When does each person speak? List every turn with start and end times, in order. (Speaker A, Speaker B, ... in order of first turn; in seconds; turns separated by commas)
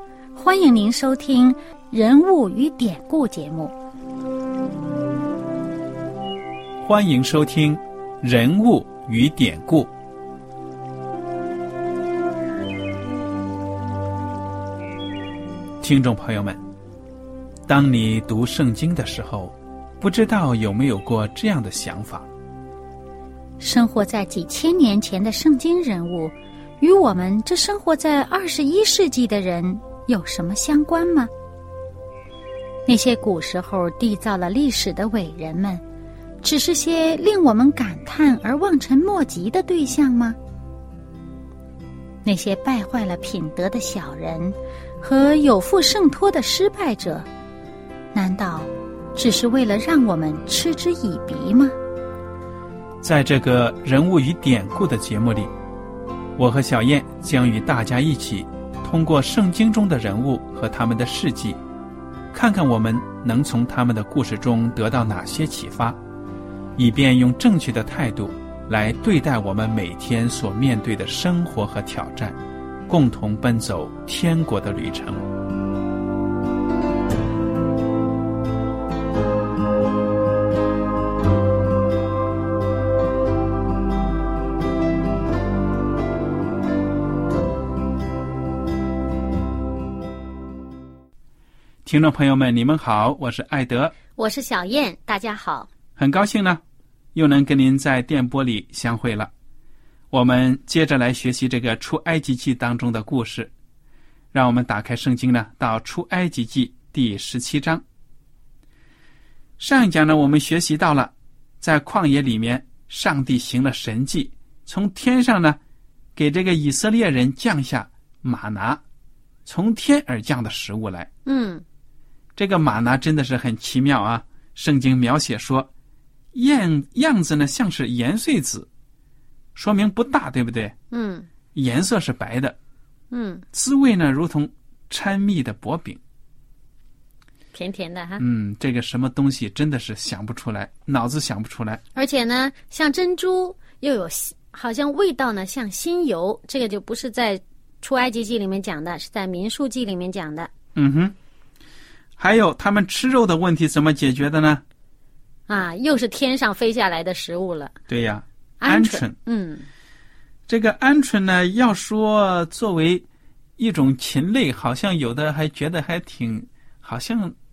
Speaker A: 0.3-3.7, Speaker B: 6.8-9.9, Speaker B: 15.8-16.6, Speaker B: 17.7-22.3, Speaker A: 23.6-31.3, Speaker A: 32.9-35.8, Speaker A: 36.4-40.4, Speaker A: 42.2-47.3, Speaker A: 48.1-51.7, Speaker B: 53.0-55.5, Speaker B: 56.4-61.6, Speaker B: 62.3-66.0, Speaker B: 66.8-72.4, Speaker B: 72.9-75.2, Speaker B: 91.8-93.9, Speaker A: 94.2-95.7, Speaker B: 96.0-96.6, Speaker B: 97.1-99.3, Speaker B: 100.1-103.5, Speaker B: 104.3-107.8, Speaker B: 109.6-115.6, Speaker B: 116.2-118.8, Speaker B: 119.5-121.1, Speaker A: 121.2-121.6, Speaker B: 122.3-125.7, Speaker B: 126.3-128.7, Speaker B: 129.6-130.7, Speaker A: 130.9-131.3, Speaker B: 131.5-132.6, Speaker A: 133.1-133.4, Speaker B: 133.5-136.0, Speaker A: 137.5-138.2, Speaker B: 138.2-141.8, Speaker A: 141.9-150.5, Speaker B: 150.7-151.1, Speaker B: 152.2-154.6, Speaker A: 155.5-157.7, Speaker B: 157.9-159.1, Speaker A: 158.6-159.7, Speaker B: 160.5-163.0, Speaker B: 163.6-167.3